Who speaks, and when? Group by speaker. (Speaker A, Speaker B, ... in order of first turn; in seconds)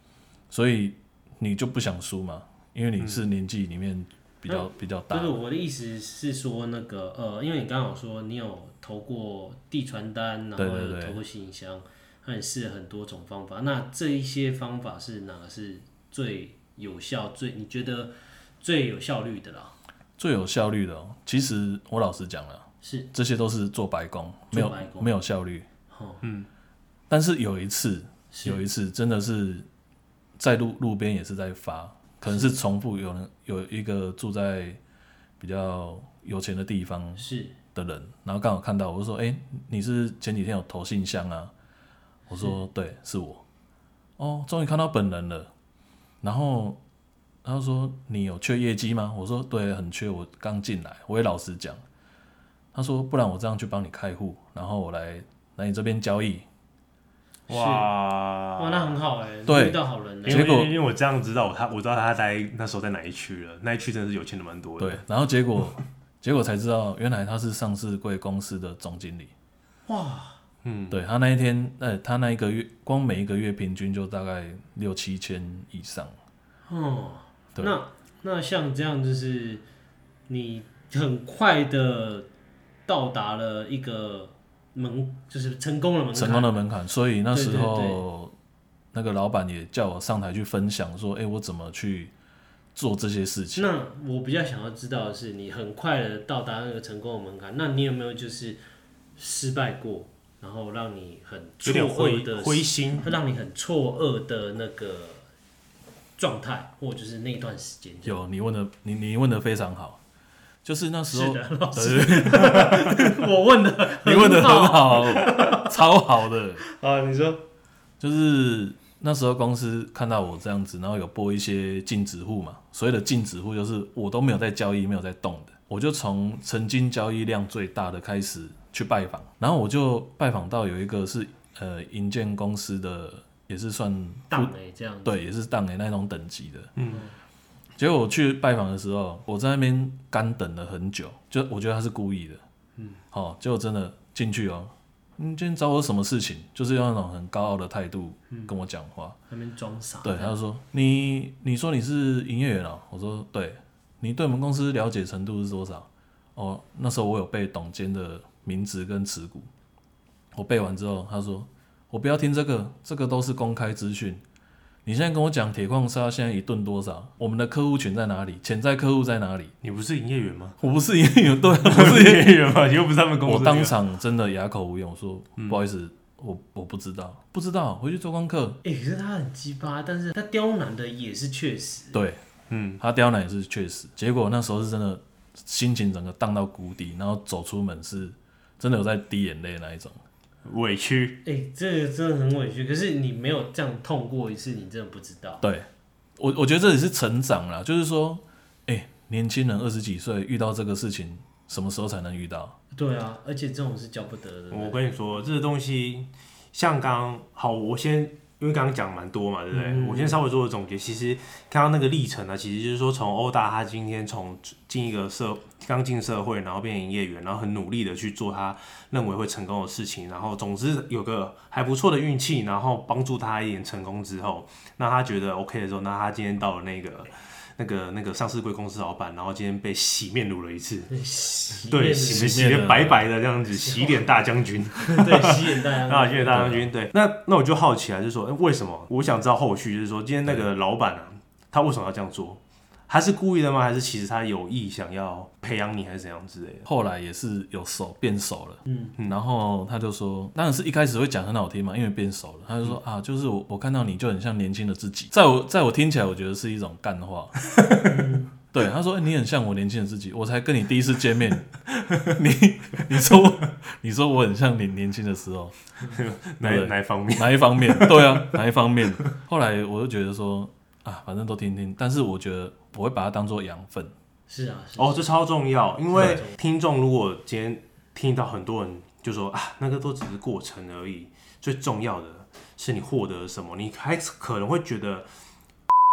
Speaker A: 0.5-5.4, 10.6-11.2, 20.2-25.6, 27.1-29.7, 30.4-34.8, 35.4-41.5, 42.3-43.4, 44.2-45.5, 46.2-46.8, 47.4-51.8, 52.7-56.5, 59.5-60.7, 64.8-69.3, 70.9-76.1, 86.1-88.3, 88.9-92.1, 92.7-93.7, 108.0-110.0, 110.6-113.2, 114.0-116.6, 118.0-134.5, 135.0-136.7, 137.8-142.4, 143.1-149.2, 150.0-159.5, 160.3-164.2, 164.8-169.5, 170.6-172.4, 173.2-178.6, 181.9-182.2, 182.8-190.0, 195.4-202.6, 232.1-233.1, 236.3-236.7, 246.7-257.5, 258.5-265.5, 266.4-273.9
Speaker B: 4.5-19.7, 22.8-23.1, 24.5-25.1, 25.9-26.2, 28.3-28.6, 32.3-32.5, 37.2-37.5, 42.3-42.6, 57.5-57.9, 58.6-60.5, 69.9-70.4, 76.7-79.6, 80.3-82.3, 82.9-86.5, 87.3-88.0, 93.5-98.6, 99.2-105.2, 106.2-108.2, 111.1-115.8, 116.7-117.4, 134.3-135.2, 149.3-150.3, 178.6-182.0, 191.2-195.4, 202.7-204.8, 209.5-210.2, 230.9-232.3, 233.6-234.0, 234.8-236.5, 248.7-248.9, 257.8-258.3, 274.3-275.1, 275.9-276.4
Speaker C: 26.2-26.5, 57.5-59.0, 60.2-65.0, 70.6-71.0, 101.6-103.1, 136.8-137.0, 169.6-170.6, 171.6-173.8, 182.5-182.8, 190.4-191.2, 204.5-230.9, 231.6-246.7, 257.6-257.9, 261.9-262.1, 265.8-268.3, 274.8-285.1